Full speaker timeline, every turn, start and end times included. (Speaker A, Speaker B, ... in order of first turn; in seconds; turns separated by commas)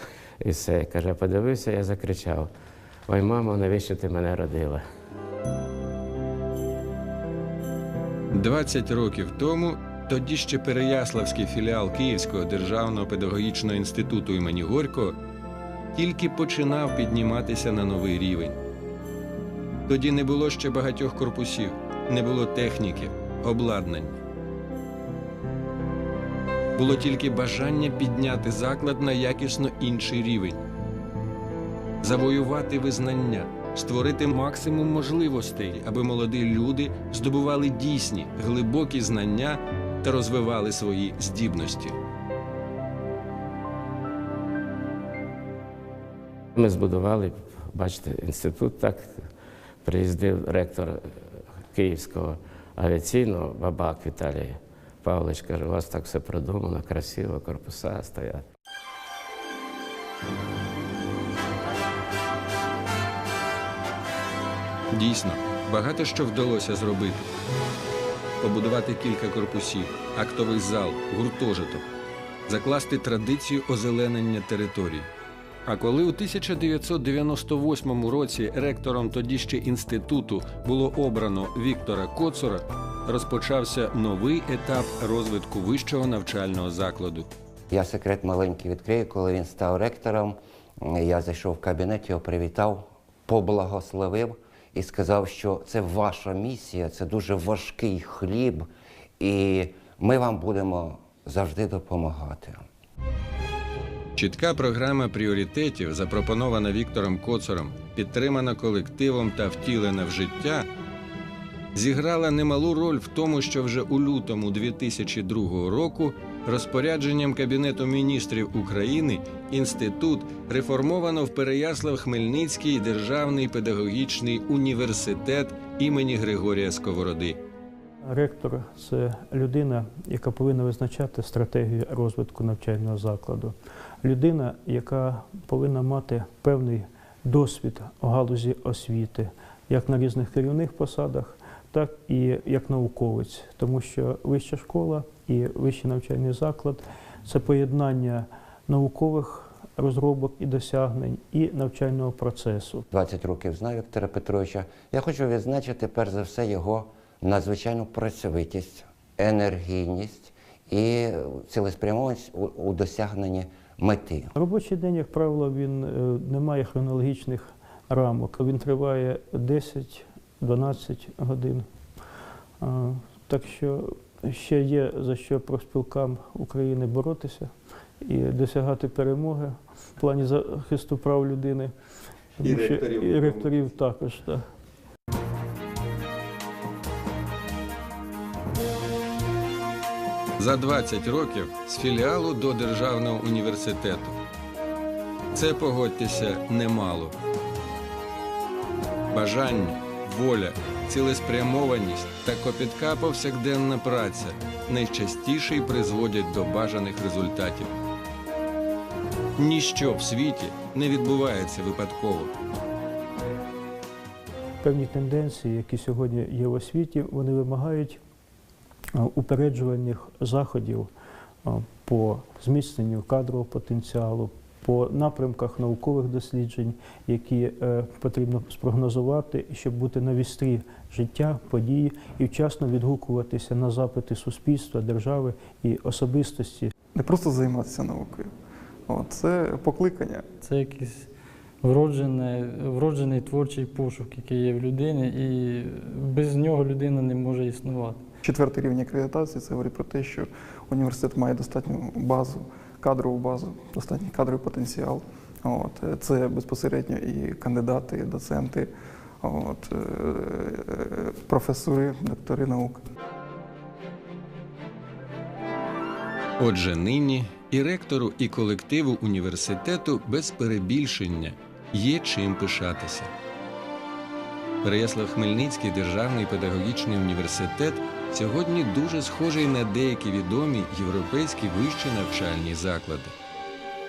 Speaker A: 0.4-2.5, Speaker A: 3.1-4.8, Speaker B: 8.3-15.2, Speaker B: 15.9-18.6, Speaker B: 19.9-24.2, Speaker B: 26.8-30.6, Speaker B: 32.0-42.0, Speaker A: 46.6-49.2, Speaker A: 49.8-58.4, Speaker B: 64.9-67.3, Speaker B: 68.4-71.9, Speaker B: 72.5-75.1, Speaker B: 75.7-87.3, Speaker C: 87.7-98.7, Speaker C: 99.2-102.6, Speaker B: 104.2-110.7, Speaker B: 111.8-127.4, Speaker D: 128.1-152.8, Speaker C: 152.9-164.3, Speaker D: 164.4-171.6, Speaker D: 172.6-181.7, Speaker D: 182.4-184.4, Speaker B: 182.4-183.5, Speaker B: 190.4-194.2, Speaker B: 195.3-197.2, Speaker B: 199.1-207.8, Speaker B: 209.4-212.3, Speaker D: 214.6-218.0, Speaker D: 219.0-220.9, Speaker D: 221.4-236.7, Speaker E: 236.9-238.3, Speaker E: 238.9-240.2, Speaker F: 240.4-241.1, Speaker F: 241.6-248.0, Speaker E: 248.2-258.7, Speaker E: 259.2-262.8, Speaker B: 266.4-273.1, Speaker B: 274.6-283.1